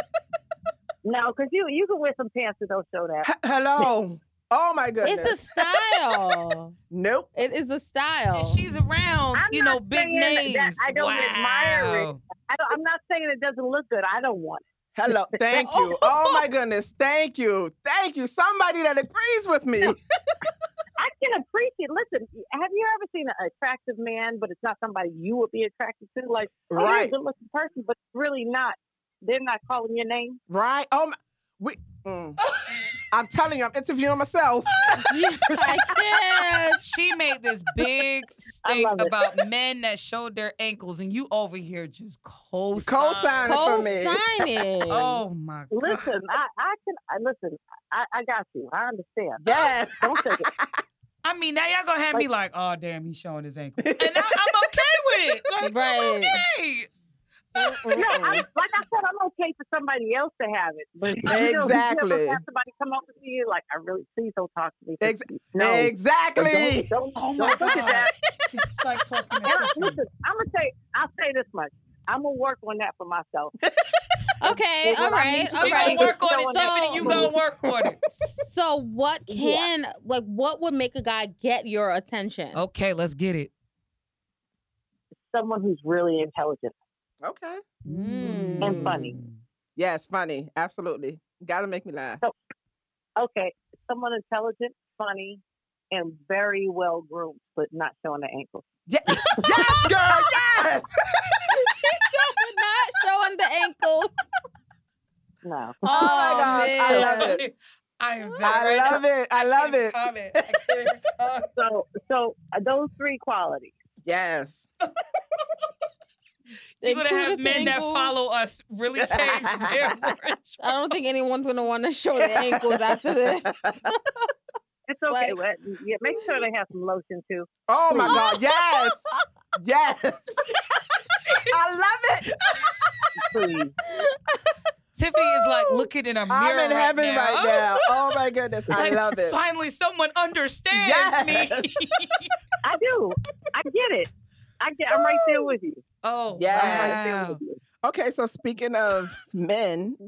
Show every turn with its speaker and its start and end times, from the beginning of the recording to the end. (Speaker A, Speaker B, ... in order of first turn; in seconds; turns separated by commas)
Speaker A: 1.0-3.3, Speaker B: 3.2-6.4, Speaker C: 5.0-6.7, Speaker B: 6.9-7.3, Speaker C: 7.3-8.6, Speaker D: 8.3-12.2, Speaker A: 9.3-15.7, Speaker B: 14.9-20.0, Speaker C: 15.6-16.4, Speaker A: 21.0-30.4, Speaker B: 26.7-27.1, Speaker B: 30.5-32.4, Speaker D: 32.4-32.9, Speaker B: 33.1-35.1, Speaker C: 35.0-36.8, Speaker D: 36.8-43.9, Speaker A: 38.6-39.1, Speaker B: 42.8-44.2, Speaker C: 43.5-45.2, Speaker D: 44.9-46.1, Speaker A: 45.7-50.5, Speaker B: 49.4-50.8, Speaker D: 51.2-56.9, Speaker B: 53.8-54.5, Speaker C: 55.6-56.4, Speaker B: 57.6-58.4, Speaker A: 57.9-68.1, Speaker B: 61.2-62.4, Speaker B: 65.0-66.9, Speaker D: 67.1-70.0, Speaker A: 69.5-73.5, Speaker B: 73.6-74.0, Speaker C: 74.4-77.3, Speaker A: 74.8-77.3, Speaker D: 75.5-78.0, Speaker C: 78.3-82.6, Speaker A: 79.3-79.7, Speaker D: 82.5-83.5, Speaker A: 85.3-86.7, Speaker B: 87.2-87.6, Speaker D: 87.8-89.4, Speaker C: 87.9-89.0, Speaker A: 88.6-89.1, Speaker B: 89.8-92.2, Speaker A: 93.2-98.7, Speaker B: 98.9-101.4, Speaker C: 101.5-104.1, Speaker A: 105.4-106.2, Speaker C: 105.8-107.4, Speaker B: 105.9-107.4, Speaker D: 105.9-111.5, Speaker B: 108.4-110.5, Speaker A: 111.5-113.7, Speaker B: 114.0-114.7, Speaker C: 116.8-118.1, Speaker D: 116.8-120.7, Speaker B: 119.0-119.9, Speaker C: 120.6-124.3, Speaker B: 122.1-123.9, Speaker A: 124.9-128.2, Speaker C: 125.1-125.4, Speaker B: 127.7-130.6, Speaker C: 127.9-128.9, Speaker D: 131.1-131.5, Speaker B: 131.5-132.7, Speaker A: 133.2-133.7, Speaker D: 134.9-137.8, Speaker C: 135.4-135.8, Speaker B: 136.3-139.4, Speaker D: 138.7-142.3, Speaker B: 140.7-141.7, Speaker A: 142.6-145.8, Speaker D: 146.0-147.4, Speaker B: 146.4-147.0, Speaker A: 146.5-147.6, Speaker B: 147.8-150.0